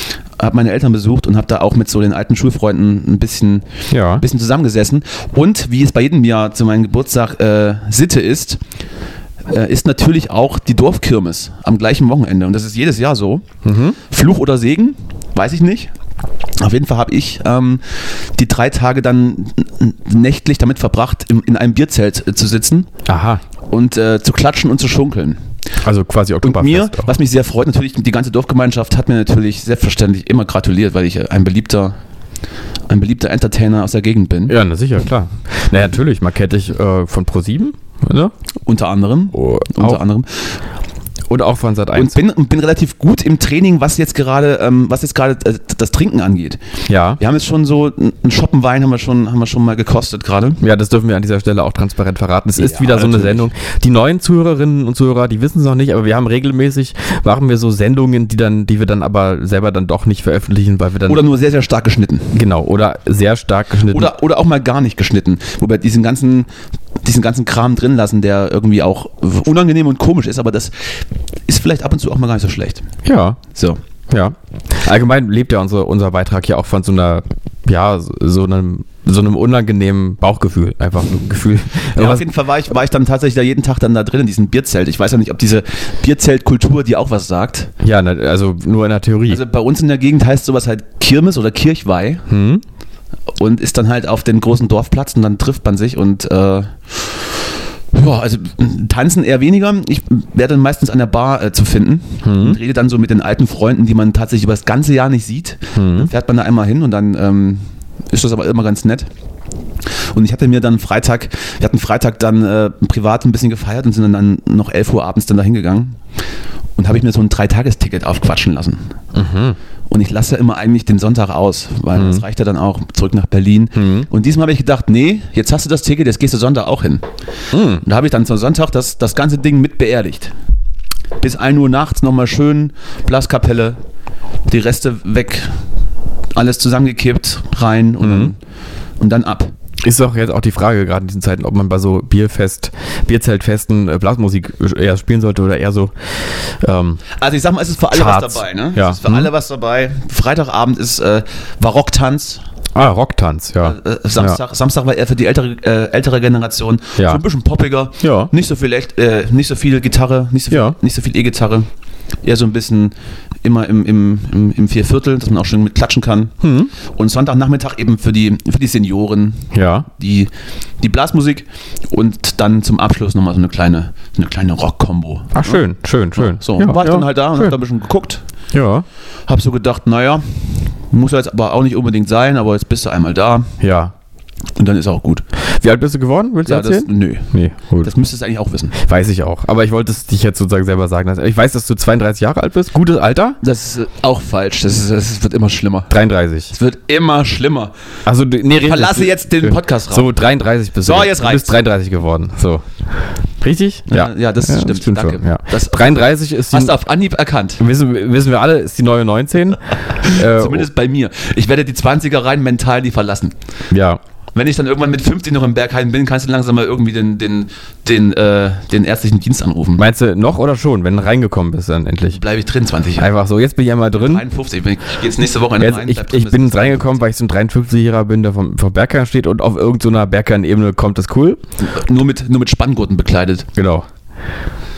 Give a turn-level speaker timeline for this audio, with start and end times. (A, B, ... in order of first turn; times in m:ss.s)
0:00.4-0:08.6 A
0:03.9-0:04.2 B
0:09.5-0:13.4 A
0:13.6-0:14.0 B
0:14.1-0:15.9 A
0:16.6-0:22.9 A
0:23.1-0:23.4 B
0:23.7-0:25.4 A
0:25.8-0:27.2 B
0:26.4-0:32.0 A
0:32.9-0:34.6 A
0:34.5-0:38.3 B
0:38.7-0:40.6 A
0:39.3-0:40.0 B
0:41.3-0:42.2 B
0:42.0-0:46.6 A
0:46.9-0:47.2 B
0:47.2-0:50.6 A
0:50.6-1:01.2 B
0:52.6-0:53.5 A
1:01.1-1:02.3 A
1:02.3-1:04.1 B
1:03.9-1:06.5 A
1:07.0-1:10.9 A
1:11.5-1:12.9 A
1:13.0-1:13.4 B
1:13.5-1:13.8 A
1:14.1-1:22.3 B
1:22.0-1:27.7 A
1:27.8-1:29.4 B
1:29.3-1:32.3 A
1:32.3-1:32.6 B
1:33.4-1:37.3 A
1:37.9-1:49.1 A
1:42.2-1:42.6 B
1:45.8-1:46.1 B
1:50.1-1:56.0 A
1:56.8-1:58.9 A
1:59.1-1:59.6 B
1:59.9-2:07.1 A
2:02.0-2:02.2 B
2:03.8-2:04.1 B
2:07.5-2:07.8 B
2:07.8-2:10.3 A
2:11.2-2:13.8 A
2:14.5-2:15.6 A
2:16.4-2:18.4 A
2:18.0-2:18.3 B
2:19.0-2:19.5 A
2:19.8-2:27.0 B
2:27.2-2:32.4 A
2:27.9-2:29.3 B
2:32.8-2:34.4 B
2:33.6-2:41.7 A
2:37.0-2:37.2 B
2:38.0-2:38.3 B
2:40.5-2:40.8 B
2:42.2-2:42.9 A
2:43.4-2:55.6 A
2:46.4-2:46.7 B
2:49.5-2:49.9 B
2:55.3-2:57.6 B
2:56.2-2:58.2 A
2:58.5-2:58.9 B
2:59.3-3:03.5 A
3:03.6-3:03.9 B
3:04.6-3:05.2 A
3:05.5-3:07.9 B
3:06.5-3:07.3 A
3:07.8-3:08.8 A
3:08.8-3:13.4 B
3:13.4-3:15.9 A
3:15.9-3:16.5 B
3:16.5-3:17.7 A
3:18.1-3:26.8 B
3:18.6-3:20.1 A
3:20.8-3:21.5 A
3:23.9-3:27.6 A
3:27.6-3:30.7 B
3:30.0-3:33.3 A
3:33.7-3:34.0 B
3:34.4-3:39.8 A
3:39.8-3:42.2 B
3:42.1-3:43.1 A
3:43.0-3:44.2 B
3:44.0-3:47.0 A
3:45.6-3:51.4 B
3:51.6-3:53.5 A
3:53.6-3:53.9 B